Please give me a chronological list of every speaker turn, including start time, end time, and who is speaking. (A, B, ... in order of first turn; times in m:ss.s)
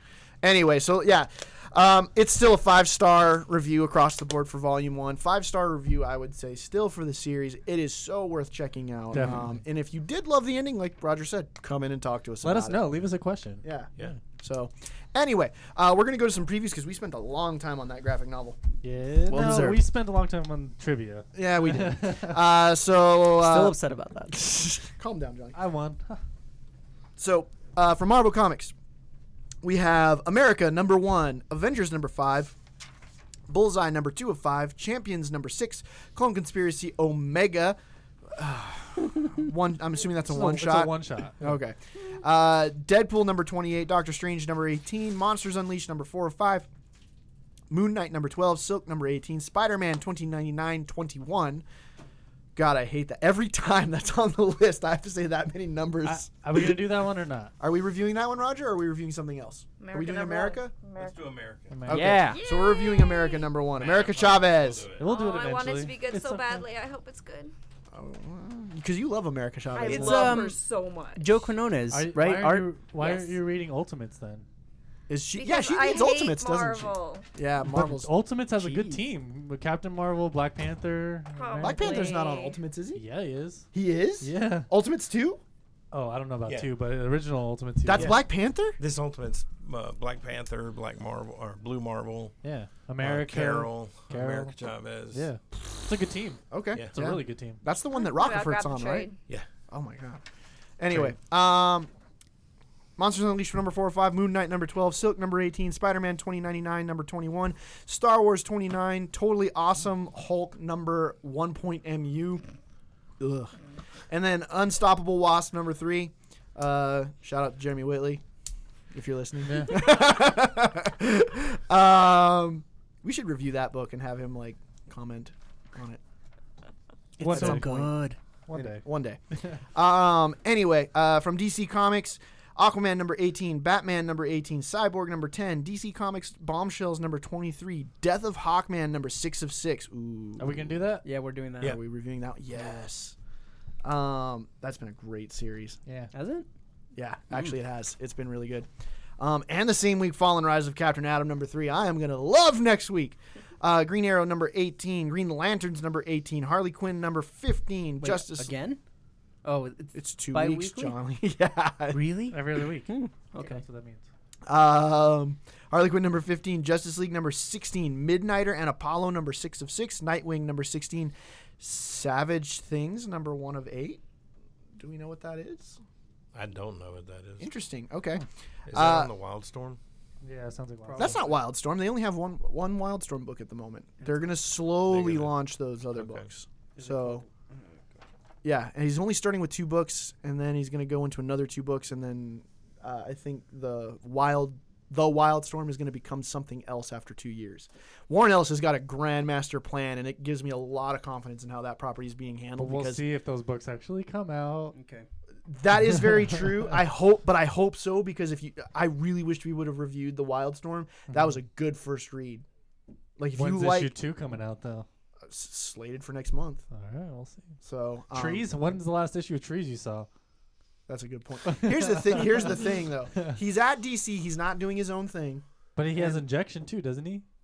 0:00.4-0:12.9 A
0:09.1-0:09.6 B
0:12.4-0:14.2 B
0:13.6-0:18.6 A
0:18.8-0:22.4 B
0:19.2-0:19.8 A
0:21.3-0:23.8 A
0:23.4-0:24.4 C
0:24.3-0:25.6 A
0:25.5-0:26.2 B
0:27.2-0:28.7 A
0:29.6-0:32.6 A
0:33.5-0:46.7 A
0:40.2-0:41.6 B
0:47.7-0:51.6 A
0:52.6-0:56.8 A
0:56.0-0:57.5 B
0:57.6-1:00.7 A
0:59.8-1:01.3 D
1:01.0-1:01.9 E
1:01.7-1:02.3 B
1:01.9-1:04.9 A
1:01.9-1:02.4 C
1:02.3-1:03.5 D
1:03.7-1:05.1 E
1:05.0-1:06.6 B
1:05.0-1:07.5 D
1:07.9-1:10.4 A
1:09.7-1:11.4 D
1:09.8-1:10.6 C
1:11.2-1:12.7 C
1:11.9-1:14.4 B
1:13.0-1:13.4 D
1:15.1-1:18.1 A
1:15.3-1:17.2 D
1:17.6-1:22.2 B
1:18.6-1:19.0 C
1:21.3-1:22.6 D
1:21.6-1:23.0 A
1:22.9-1:23.7 B
1:23.7-1:25.4 A
1:24.2-1:24.7 B
1:25.9-1:28.2 B
1:26.4-1:26.7 E
1:27.8-1:28.8 A
1:28.8-1:32.4 E
1:32.4-1:37.6 B
1:33.0-1:35.3 E
1:36.5-1:39.1 A
1:37.9-1:39.2 D
1:39.7-1:40.2 A
1:40.8-1:41.9 A
1:43.0-1:52.4 A
1:53.2-1:53.6 A
1:54.1-1:58.2 A
1:58.9-2:06.0 A
1:59.4-1:59.8 B
2:07.2-2:08.2 C
2:07.2-2:07.9 B
2:07.2-2:08.0 A
2:08.5-2:09.6 B
2:08.5-2:09.2 A
2:09.7-2:20.8 A
2:20.4-2:21.1 B
2:21.0-2:21.8 C
2:21.6-2:23.2 A
2:23.8-2:25.8 A
2:25.8-2:26.1 B
2:26.1-2:26.5 C
2:26.9-2:38.5 A
2:38.0-2:38.8 C
2:39.4-2:41.0 C
2:39.9-2:42.0 A
2:41.9-2:43.6 C
2:42.3-2:44.0 B
2:44.5-2:54.0 A
2:54.8-2:55.8 A
2:56.3-2:57.5 E
2:57.4-2:59.1 A
2:58.7-2:59.8 E
3:00.2-3:01.3 B
3:00.8-3:01.3 C
3:01.0-3:07.2 A
3:04.9-3:05.3 E
3:05.9-3:06.3 E
3:06.8-3:07.8 C
3:08.4-3:23.0 A
3:22.6-3:24.8 B
3:24.7-3:25.1 C
3:25.4-3:32.4 A
3:33.2-3:33.9 A
3:33.3-3:34.9 B
3:35.2-3:36.6 A
3:36.7-3:37.6 B
3:37.6-3:38.5 A
3:38.1-3:40.1 B
3:40.9-3:46.2 A
3:41.5-3:42.5 B
3:45.8-3:47.2 B